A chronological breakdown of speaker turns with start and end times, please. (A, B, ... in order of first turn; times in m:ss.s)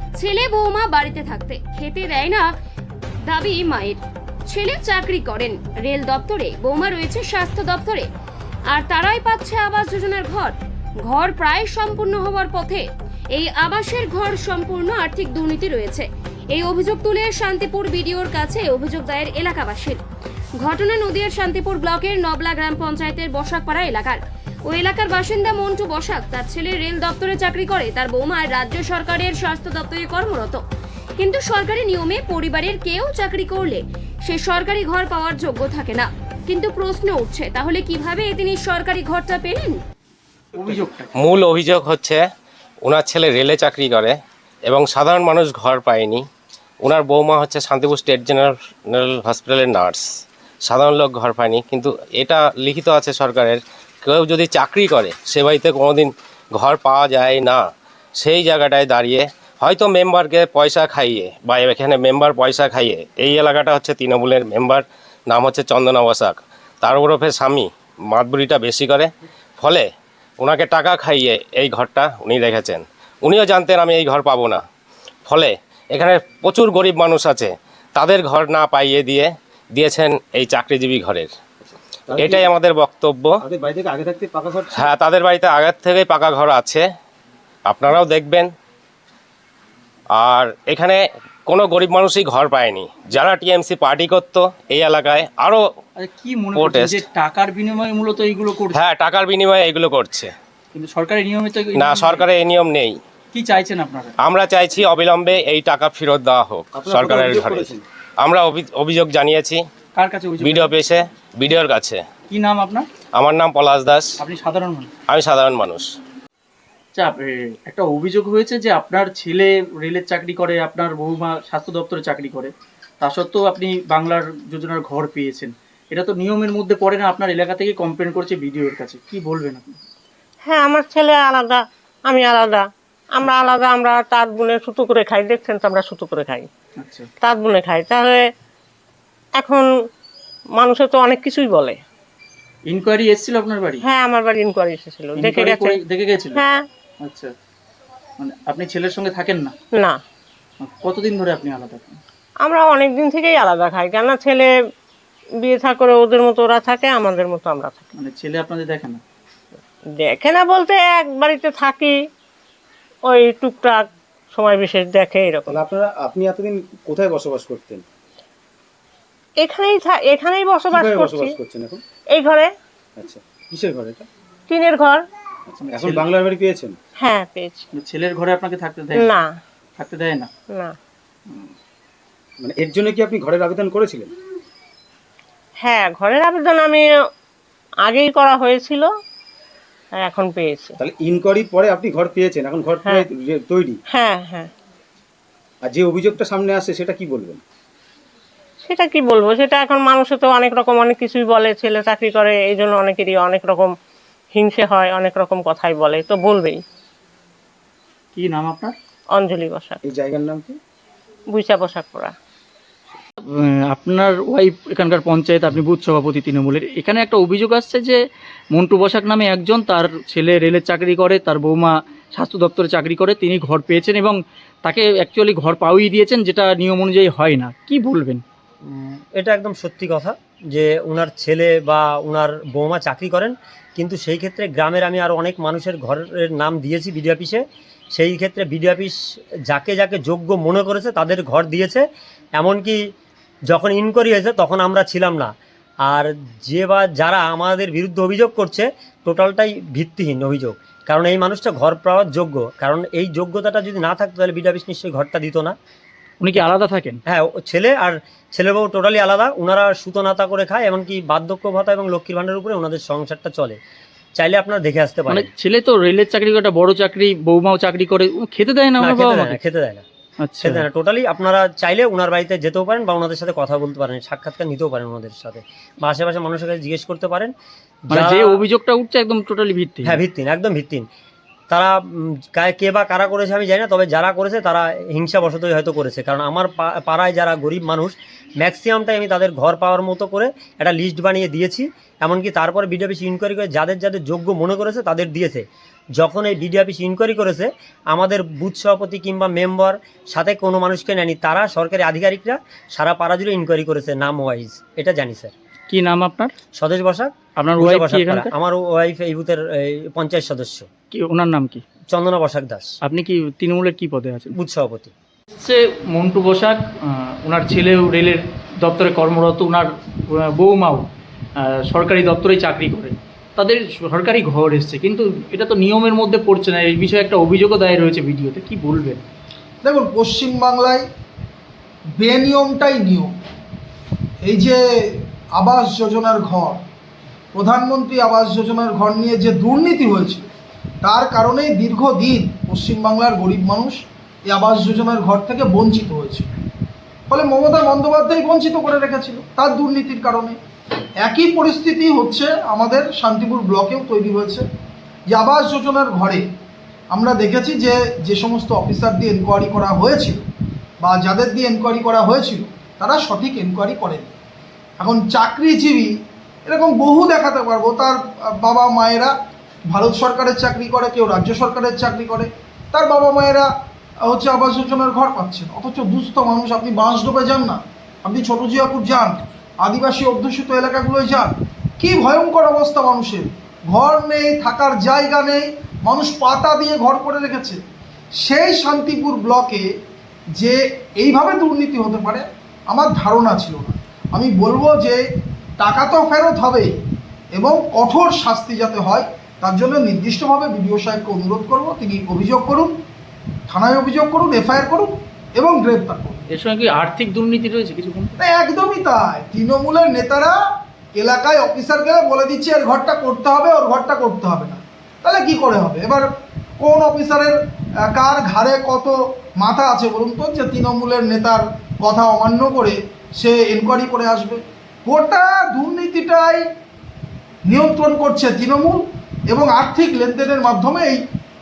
0:00.2-0:02.5 A
0:03.2-0:08.1 A
0:08.7-0:20.0 A
0:20.6-0:30.6 A
0:31.2-0:39.8 A
0:40.6-0:41.1 B
0:41.2-0:42.2 C
0:42.8-0:44.2 C
0:44.7-0:46.2 C
0:46.8-0:50.1 C
0:50.6-0:57.6 C
0:58.2-1:09.1 C
1:09.6-1:09.9 C
1:10.4-1:14.6 C
1:15.3-1:21.3 C
1:22.1-1:22.5 D
1:22.1-1:23.4 C
1:23.4-1:24.9 D
1:24.7-1:26.9 C
1:27.7-1:28.5 C
1:30.2-1:35.6 C
1:36.0-1:38.8 B
1:36.6-1:37.0 C
1:38.7-1:40.3 C
1:40.7-1:42.3 B
1:41.8-1:43.0 C
1:43.3-1:44.1 B
1:44.2-1:49.6 C
1:46.7-1:47.8 D
1:50.0-1:50.7 B
1:50.4-1:52.0 C
1:52.3-1:52.9 B
1:53.2-1:54.1 C
1:54.2-1:54.9 B
1:55.1-1:55.9 C
1:57.0-2:09.8 B
2:10.5-2:16.5 E
2:16.8-2:17.1 B
2:17.2-2:18.3 E
2:19.4-2:19.7 E
2:20.6-2:21.8 E
2:22.7-2:23.8 B
2:23.8-2:25.8 E
2:25.2-2:26.4 B
2:26.4-2:26.7 E
2:27.0-2:27.3 B
2:28.2-2:29.5 B
2:30.6-2:32.0 B
2:32.4-2:34.5 E
2:35.4-2:37.9 E
2:38.0-2:39.0 B
2:40.0-2:42.0 E
2:43.1-2:45.6 E
2:45.5-2:47.8 D
2:49.4-2:51.4 E
2:50.7-2:51.8 D
2:52.1-2:52.5 E
2:53.0-2:54.1 D
2:54.5-2:55.0 E
2:55.5-2:56.8 D
2:55.6-2:56.1 B
2:57.0-2:57.7 E
2:57.7-2:59.1 B
2:59.0-2:59.4 E
2:59.8-3:00.3 B
3:02.4-3:04.1 D
3:05.6-3:06.9 E
3:07.8-3:08.9 E
3:10.0-3:10.8 E
3:10.8-3:13.8 D
3:13.9-3:14.5 E
3:15.6-3:17.4 D
3:18.6-3:23.7 E
3:24.3-3:26.6 E
3:28.2-3:28.7 B
3:29.2-3:29.8 E
3:29.8-3:30.6 D
3:31.3-3:32.1 E
3:33.7-3:38.0 B
3:38.5-3:48.2 B
3:48.7-3:57.4 F
3:57.9-4:02.8 F
4:03.5-4:05.3 F
4:05.8-4:15.6 F
4:16.2-4:17.0 B
4:17.1-4:23.6 F
4:24.2-4:25.3 F
4:25.1-4:29.4 B
4:28.8-4:29.8 F
4:30.2-4:30.6 B
4:30.4-4:37.3 F
4:37.9-4:38.4 F
4:37.9-4:40.0 B
4:39.8-4:40.8 F
4:41.5-4:55.4 F
4:56.0-5:05.3 F
5:05.7-5:06.3 B
5:06.6-5:10.7 F
5:07.4-5:08.3 B
5:10.9-5:11.6 B
5:11.9-5:12.8 F
5:12.8-5:14.4 B
5:14.4-5:14.9 F
5:15.4-5:20.8 B
5:21.4-5:29.0 B
5:29.6-5:30.8 G
5:32.0-5:33.1 G
5:34.2-5:36.6 G
5:37.3-5:40.3 G
5:40.8-5:46.3 G
5:47.1-5:50.4 G
5:51.0-5:54.4 G
5:55.1-5:56.2 G
5:56.9-6:00.2 G
6:00.8-6:04.1 G
6:04.8-6:05.9 G
6:06.5-6:09.1 G
6:09.7-6:13.5 G
6:14.0-6:27.6 G
6:28.2-6:29.7 G
6:30.4-6:35.0 G
6:35.6-6:36.8 G
6:37.3-6:42.7 G
6:43.5-6:46.2 G
6:46.3-6:48.2 B
6:48.2-6:50.3 G
6:51.0-6:56.1 G
6:56.6-6:57.4 G
6:57.9-7:06.4 G
7:07.5-7:11.0 G